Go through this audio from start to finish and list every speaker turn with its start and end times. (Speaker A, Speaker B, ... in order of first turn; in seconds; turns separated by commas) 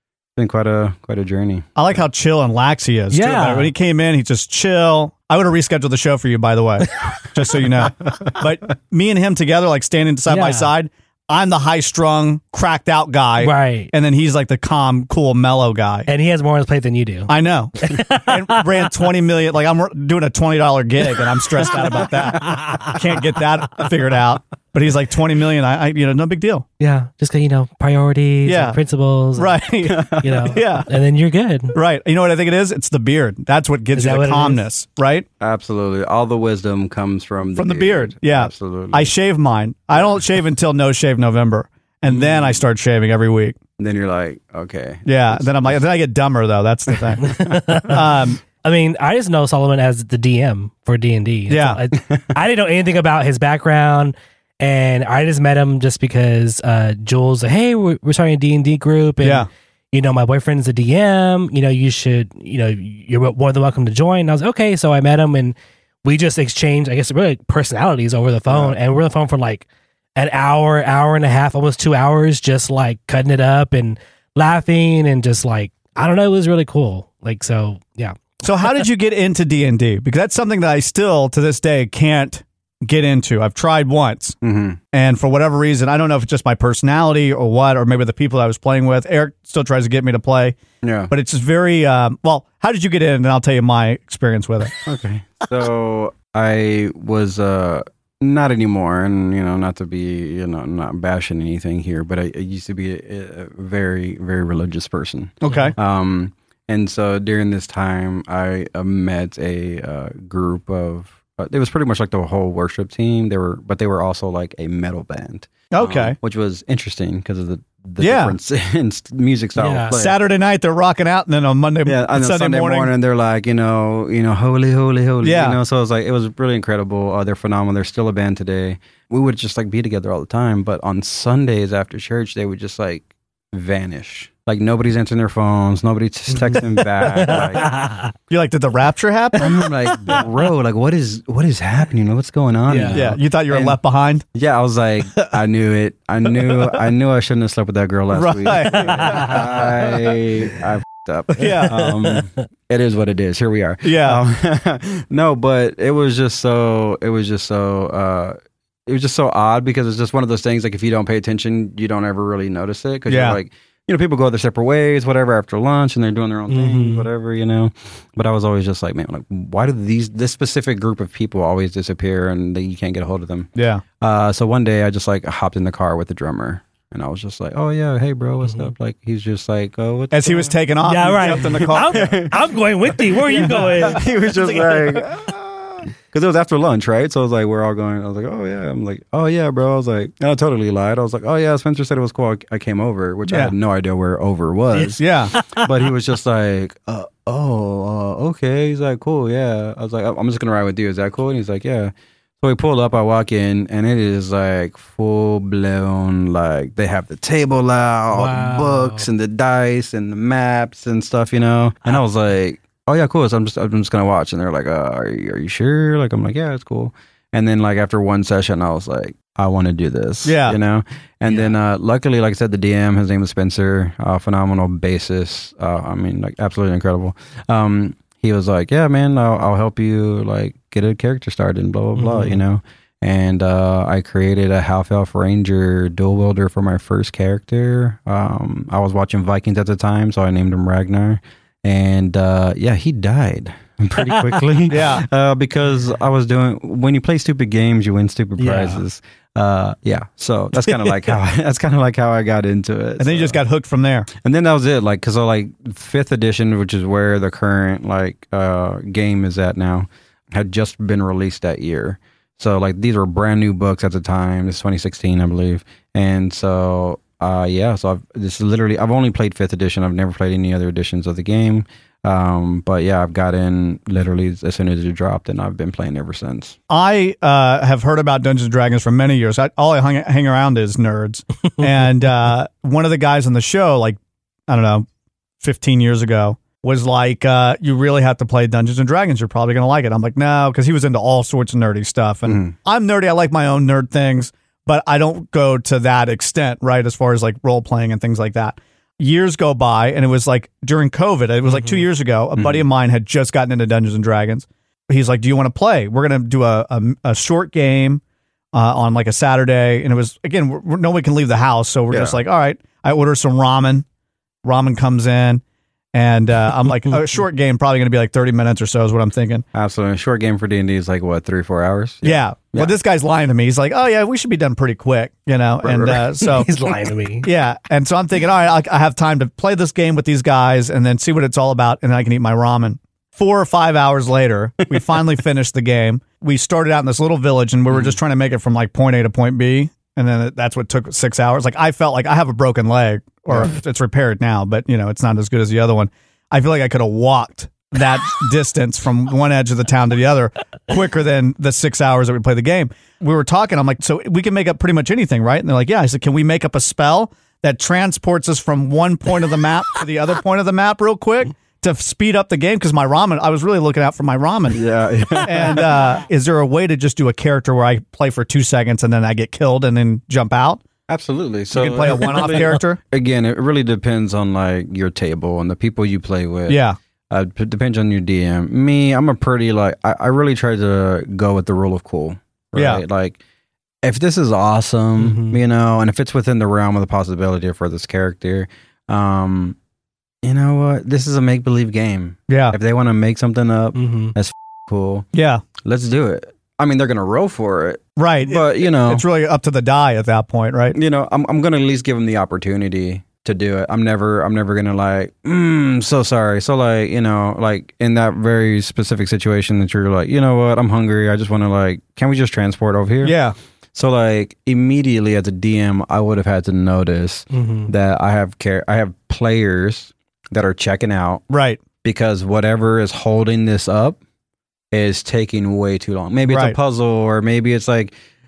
Speaker A: 0.4-2.0, Speaker B: 1.8-16.1, Speaker C: 3.1-3.7, Speaker C: 10.3-10.7, Speaker C: 13.4-13.9, Speaker C: 16.1-18.9, Speaker B: 17.3-26.6, Speaker C: 21.8-22.9, Speaker C: 26.8-31.8, Speaker B: 28.5-28.8, Speaker B: 29.4-30.9, Speaker A: 29.9-30.6, Speaker B: 31.7-35.3, Speaker C: 34.0-34.6, Speaker A: 35.4-39.1, Speaker B: 37.6-43.6, Speaker A: 42.1-42.6, Speaker A: 43.8-45.8, Speaker B: 45.1-48.4, Speaker A: 46.9-47.8, Speaker C: 47.2-48.1, Speaker C: 48.6-78.8, Speaker B: 51.5-51.8, Speaker B: 59.2-59.5, Speaker A: 68.5-68.8, Speaker B: 78.4-84.4, Speaker A: 84.4-84.8, Speaker B: 84.9-90.6, Speaker A: 90.8-91.1, Speaker B: 91.1-94.7, Speaker A: 94.8-120.2, Speaker B: 105.4-105.8, Speaker C: 105.5-105.7, Speaker B: 115.7-116.2, Speaker B: 118.0-118.3, Speaker C: 119.6-120.0, Speaker B: 119.9-122.9, Speaker A: 121.9-137.7, Speaker B: 125.2-125.6, Speaker C: 136.3-138.1, Speaker B: 138.3-139.5, Speaker A: 139.4-143.8, Speaker C: 139.9-140.2, Speaker C: 142.7-143.1, Speaker B: 142.9-144.2, Speaker A: 144.3-253.4, Speaker B: 148.1-149.6, Speaker C: 148.7-149.7, Speaker B: 151.4-151.8, Speaker C: 151.5-152.3, Speaker B: 153.8-154.2, Speaker B: 163.1-163.4, Speaker C: 166.5-167.1, Speaker B: 173.6-173.8, Speaker C: 178.4-178.7, Speaker B: 180.1-181.9, Speaker C: 180.8-184.9, Speaker B: 183.3-184.0, Speaker B: 193.3-193.5, Speaker C: 194.8-195.7, Speaker B: 195.0-195.3, Speaker C: 208.1-209.1, Speaker B: 220.2-220.6, Speaker C: 221.3-221.5, Speaker C: 232.0-232.4, Speaker B: 244.7-245.1, Speaker C: 248.4-248.8, Speaker B: 253.0-254.1, Speaker A: 254.1-276.6, Speaker B: 276.7-284.9, Speaker B: 285.4-308.0, Speaker A: 292.3-292.5, Speaker C: 301.5-301.9, Speaker A: 302.4-302.6, Speaker B: 308.5-313.9, Speaker A: 311.9-312.2, Speaker B: 314.4-315.4, Speaker B: 315.9-319.4, Speaker A: 319.5-322.7, Speaker B: 322.0-326.5, Speaker A: 325.6-326.1, Speaker C: 326.2-327.3, Speaker B: 327.2-364.6, Speaker A: 337.7-338.0, Speaker A: 364.5-365.8, Speaker B: 365.2-370.6, Speaker A: 370.9-383.2, Speaker B: 371.5-372.8, Speaker B: 376.5-376.8, Speaker B: 382.6-382.8, Speaker A: 383.8-389.6, Speaker C: 385.0-385.4, Speaker A: 390.2-395.1, Speaker B: 392.3-392.6, Speaker C: 393.8-394.1, Speaker B: 395.1-395.4, Speaker A: 395.6-399.0, Speaker B: 398.0-400.8, Speaker A: 400.7-413.2, Speaker B: 413.0-413.4, Speaker A: 413.7-421.2, Speaker C: 417.3-417.7, Speaker B: 421.3-421.6, Speaker A: 421.8-424.0, Speaker A: 424.7-427.9, Speaker B: 426.3-426.6